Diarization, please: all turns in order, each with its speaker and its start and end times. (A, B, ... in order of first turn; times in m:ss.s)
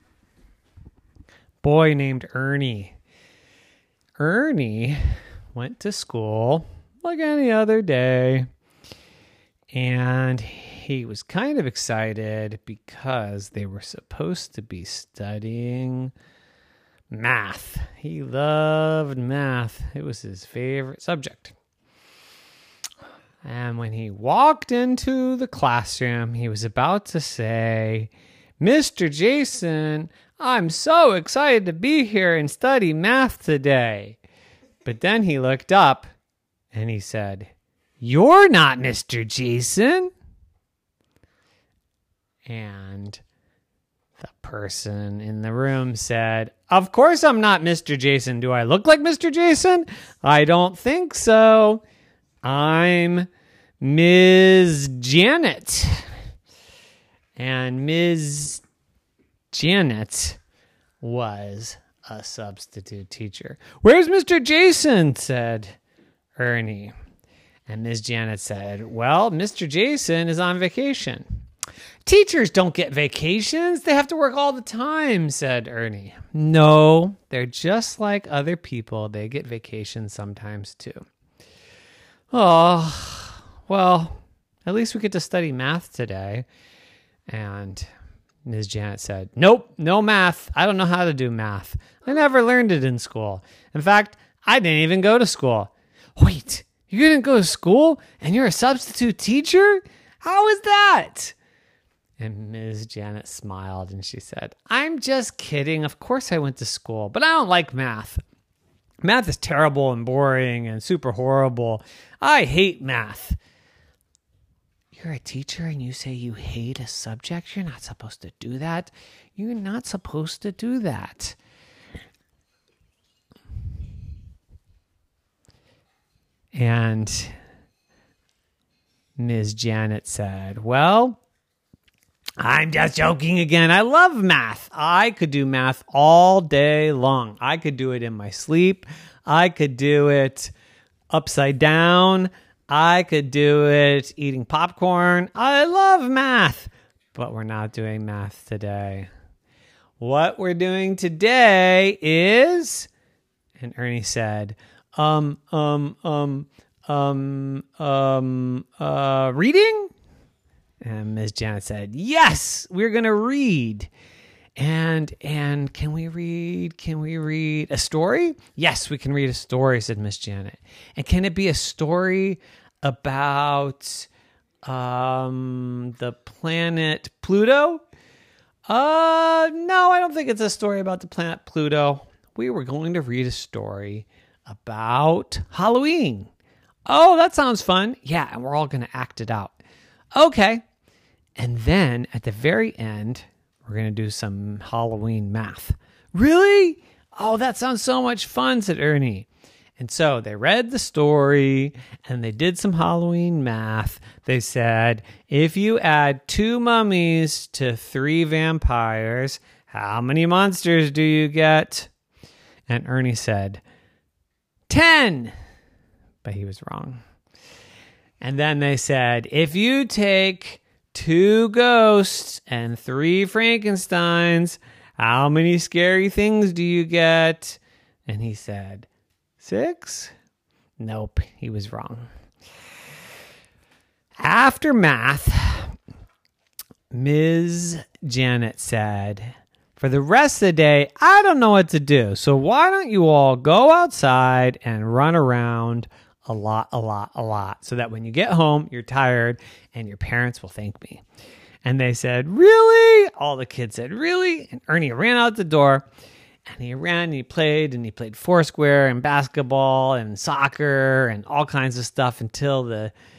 0:01.6-0:02.9 A
0:04.2-0:05.0 A
0:05.5-0:08.4 A
0:09.7-0:16.1 A
0:17.1-0:21.5 A
0:23.4-0:34.2 A
0:34.8-0:36.1 A
0:36.7-0:40.1 A
0:42.4-0:43.2 A
0:44.2-0:51.8 A
0:52.4-0:53.3 A
0:53.8-0:56.0 A
0:57.4-0:58.6 A
0:59.5-1:00.4 A
1:01.0-1:05.7 A
1:06.4-1:06.9 A
1:07.7-1:11.2 A
1:12.0-1:21.0 A
1:22.3-1:26.4 A
1:27.3-1:27.9 A
1:28.4-1:41.3 A
1:42.2-1:48.2 A
1:49.0-1:53.4 A
1:54.9-2:01.4 A
2:06.5-2:07.3 A
2:09.2-2:11.2 A
2:12.4-2:20.5 A
2:21.1-2:29.1 A
2:30.0-2:32.9 A
2:33.6-2:39.9 A
2:40.8-2:43.9 A
2:44.6-2:54.1 A
2:54.6-2:57.8 A
2:58.7-3:06.3 A
3:06.9-3:09.6 A
3:10.1-3:10.6 A
3:11.4-3:31.9 A
3:32.7-3:33.6 A
3:34.7-3:35.3 A
3:36.2-3:37.0 A
3:38.2-3:48.9 A
3:49.4-3:50.1 A
3:50.8-3:52.1 A
3:54.2-3:55.7 A
3:56.9-4:11.0 A
4:11.6-4:15.8 A
4:16.4-4:22.9 A